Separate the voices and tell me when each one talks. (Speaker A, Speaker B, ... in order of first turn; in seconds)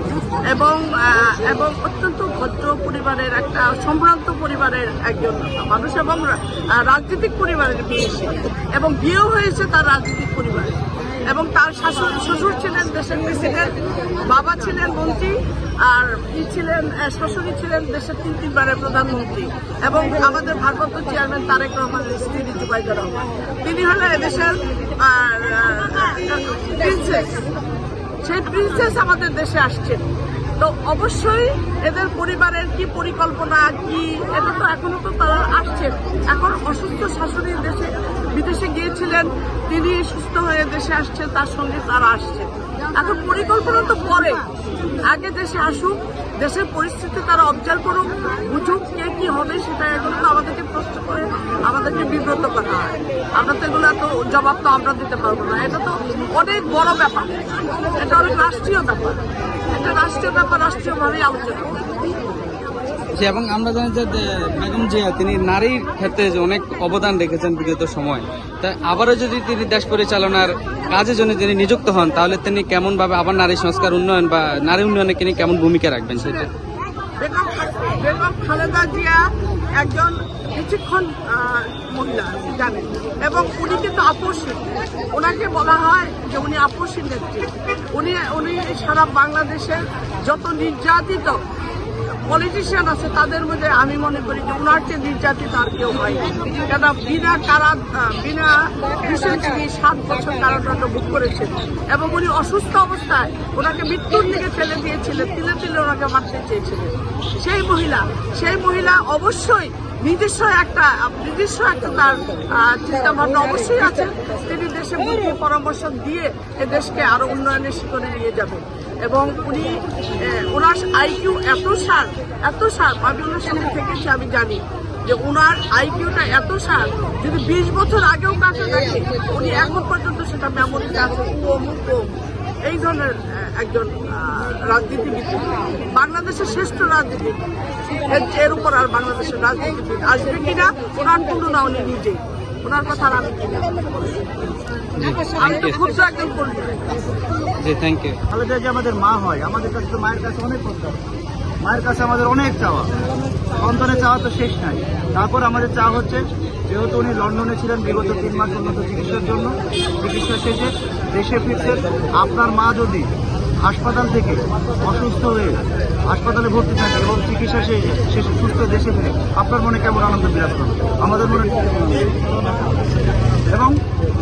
Speaker A: 0.5-27.4, 28.2-30.1, 30.6-44.5, 45.0-62.0, 76.2-76.4, 77.2-91.4, 92.3-137.5, 138.0-144.3, 145.3-147.0
Speaker B: 63.1-76.5, 145.0-145.8, 147.6-148.2
Speaker C: 148.3-151.0, 151.6-152.9, 153.5-163.1, 163.6-172.2, 173.5-173.8